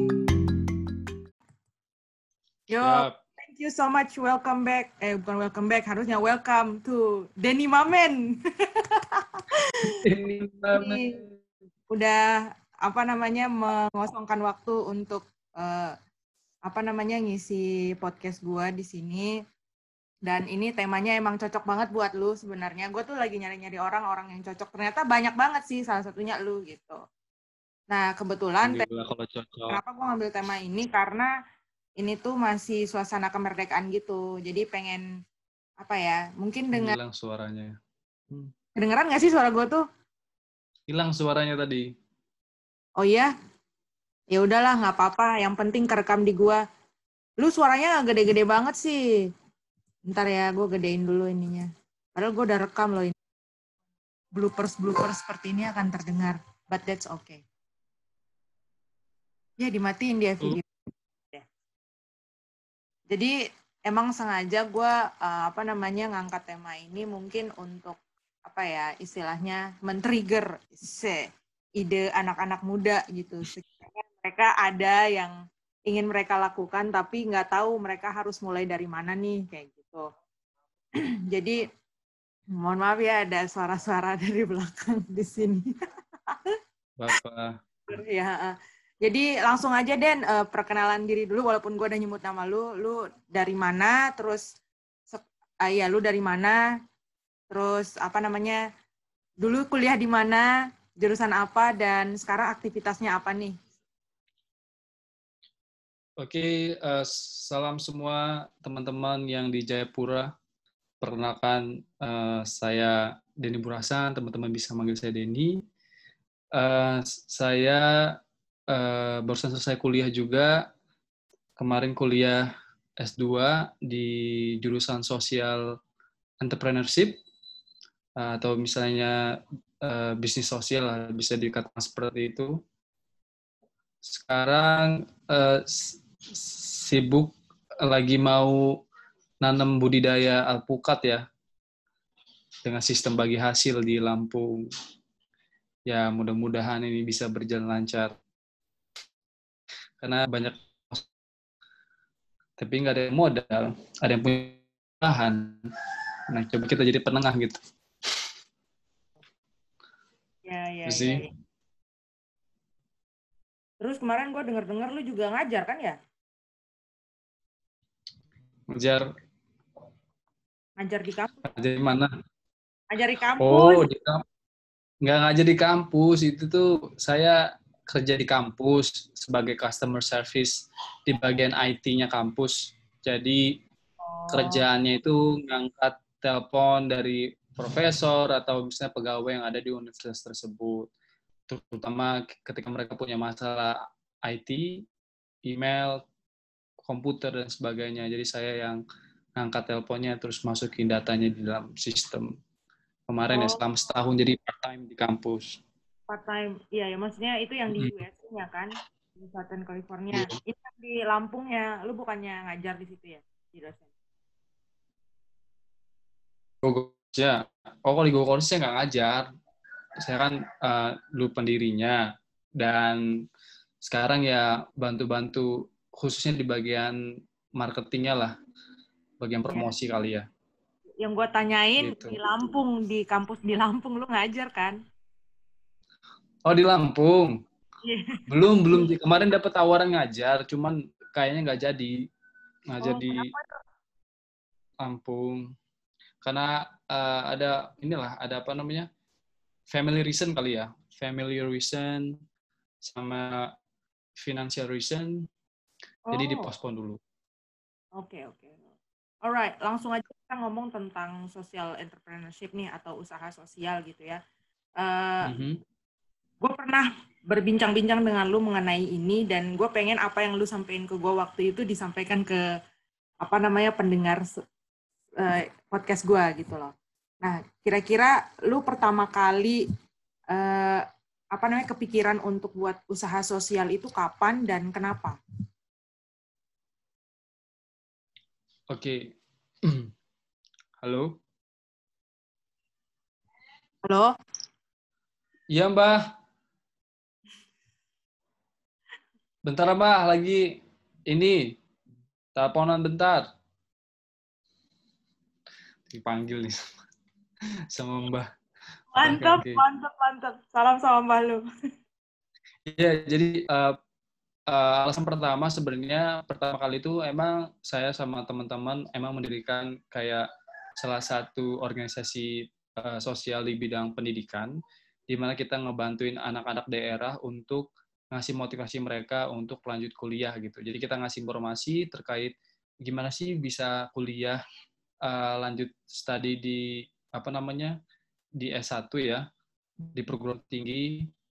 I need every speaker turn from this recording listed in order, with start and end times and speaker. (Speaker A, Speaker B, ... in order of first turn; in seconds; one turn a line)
Speaker A: 2.7-8.3
Speaker B: 2.8-3.1
Speaker A: 8.8-10.0
Speaker B: 10.0-11.1
Speaker A: 10.7-11.2
Speaker A: 11.9-15.9
Speaker A: 16.6-19.3
Speaker A: 20.2-27.0
Speaker A: 27.9-28.9
Speaker B: 28.6-29.8
Speaker A: 29.7-31.3
Speaker A: 32.0-35.0
Speaker A: 35.8-37.0
Speaker B: 36.7-37.7
Speaker A: 38.8-39.8
Speaker B: 40.9-41.9
Speaker A: 43.0-43.3
Speaker A: 44.3-46.6
Speaker A: 47.4-49.0
Speaker A: 50.1-53.1
Speaker A: 54.4-57.4
Speaker A: 59.6-60.7
Speaker A: 63.1-71.2
Speaker A: 71.8-75.3
Speaker A: 75.9-80.0
Speaker A: 81.3-81.6
Speaker A: 82.5-85.6
Speaker B: 87.0-87.5
Speaker A: 87.9-94.5
Speaker A: 95.1-96.6
Speaker A: 97.5-98.6
Speaker A: 99.4-103.5
Speaker B: 106.2-110.3
Speaker B: 111.0-115.6
Speaker B: 116.5-118.2
Speaker B: 118.7-120.6
Speaker B: 121.6-122.5
Speaker B: 123.0-125.7
Speaker B: 126.4-127.2
Speaker B: 128.2-129.2
Speaker B: 129.8-132.6
Speaker B: 134.0-138.7
Speaker B: 139.4-141.2
Speaker B: 142.6-144.7
Speaker B: 145.9-148.1
Speaker B: 150.0-151.0
Speaker B: 152.6-155.7
Speaker B: 156.3-157.6
Speaker A: 160.4-161.3
Speaker B: 160.9-161.2
Speaker A: 163.8-165.9
Speaker B: 168.7-169.1
Speaker A: 170.8-171.4
Speaker B: 171.4-172.1
Speaker A: 172.9-173.8
Speaker B: 173.4-174.2
Speaker B: 175.0-183.4
Speaker A: 184.0-184.6
Speaker B: 184.3-190.9
Speaker B: 191.5-194.8
Speaker B: 195.5-196.0
Speaker B: 196.8-198.8
Speaker B: 199.4-202.3
Speaker B: 203.1-205.6
Speaker A: 203.3-203.6
Speaker A: 206.1-213.9
Speaker B: 207.7-208.0
Speaker B: 216.6-219.2
Speaker B: 220.0-222.0
Speaker B: 222.6-223.0
Speaker B: 223.8-226.9
Speaker B: 227.6-228.3
Speaker B: 229.2-230.2
Speaker A: 231.0-234.8
Speaker B: 231.8-232.2
Speaker B: 236.4-237.4
Speaker A: 237.8-238.9
Speaker B: 238.3-241.9
Speaker B: 242.7-243.3
Speaker A: 242.8-243.6
Speaker B: 244.8-245.4
Speaker B: 246.2-248.9
Speaker B: 249.7-252.2
Speaker B: 252.8-253.5
Speaker B: 254.2-255.3
Speaker A: 256.1-256.5
Speaker B: 256.1-257.0
Speaker A: 258.0-258.6
Speaker A: 259.2-264.2
Speaker A: 264.8-265.3
Speaker B: 265.2-265.6
Speaker A: 266.4-272.4
Speaker A: 273.2-274.2
Speaker A: 275.2-279.6
Speaker A: 280.3-285.1
Speaker B: 288.7-289.9
Speaker B: 290.8-291.1
Speaker A: 293.9-294.1
Speaker B: 295.5-296.1
Speaker B: 299.4-301.5
Speaker B: 302.4-303.2
Speaker B: 305.9-306.6
Speaker B: 307.7-308.3
Speaker A: 308.9-311.4
Speaker B: 309.0-309.6
Speaker B: 312.7-313.8
Speaker B: 314.5-320.3
Speaker B: 320.8-324.5
Speaker B: 325.1-334.4
Speaker B: 335.0-337.8
Speaker B: 338.4-339.2
Speaker B: 339.9-341.1